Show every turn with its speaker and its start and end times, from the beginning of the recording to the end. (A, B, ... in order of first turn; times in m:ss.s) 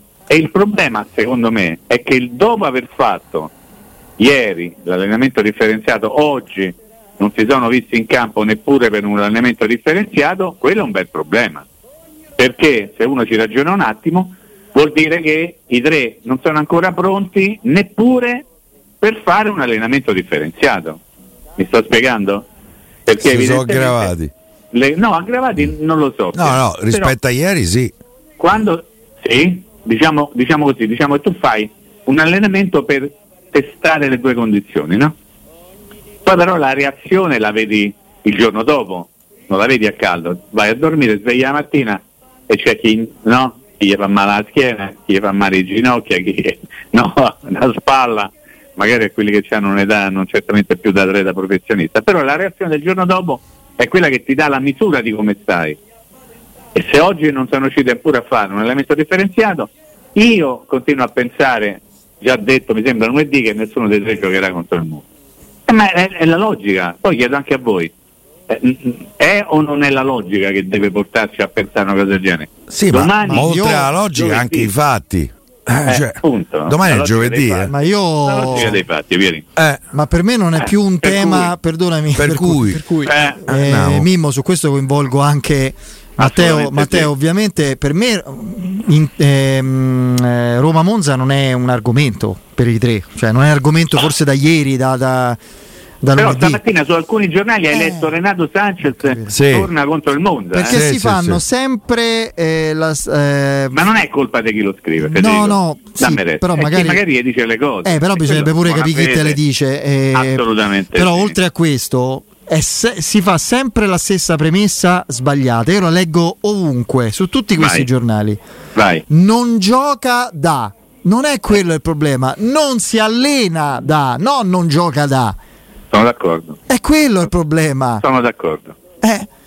0:00.3-0:03.5 A
0:04.2-0:11.6 A
0:12.4-0:18.4 A
0:19.0-0:21.0 A
0:21.6-0:22.4 A
0:23.1-0:24.1 A
0:23.2-0:24.3 B
0:24.7-0:27.1 A
0:26.3-0:27.9 B
0:28.4-0:35.1 A
0:36.2-0:55.8 A
0:56.7-1:05.0 A
1:05.7-1:07.9 A
1:08.5-1:14.7 A
1:12.7-1:17.7 B
1:13.3-1:13.9 C
1:15.8-1:19.4 A
1:17.7-1:18.8 C
1:19.6-1:19.8 B
1:19.9-1:35.4 C
1:21.0-1:21.5 A
1:22.2-1:22.9 B
1:23.0-1:23.4 A
1:23.5-1:24.1 B
1:26.2-1:27.1 A
1:36.0-1:36.6 C
1:36.2-1:40.8 A
1:37.7-1:38.1 C
1:39.0-1:39.3 C
1:39.3-1:39.7 B
1:40.5-1:43.9 C
1:40.6-1:41.4 B
1:43.7-1:49.4 A
1:45.0-1:47.0 C
1:47.8-1:50.4 C
1:50.1-1:51.4 A
1:50.9-1:58.4 C
1:57.6-1:57.9 A
1:58.7-1:59.0 A
1:59.1-2:05.4 C
2:05.9-2:06.6 A
2:06.7-2:08.0 C
2:08.0-2:08.8 A
2:09.0-2:09.3 C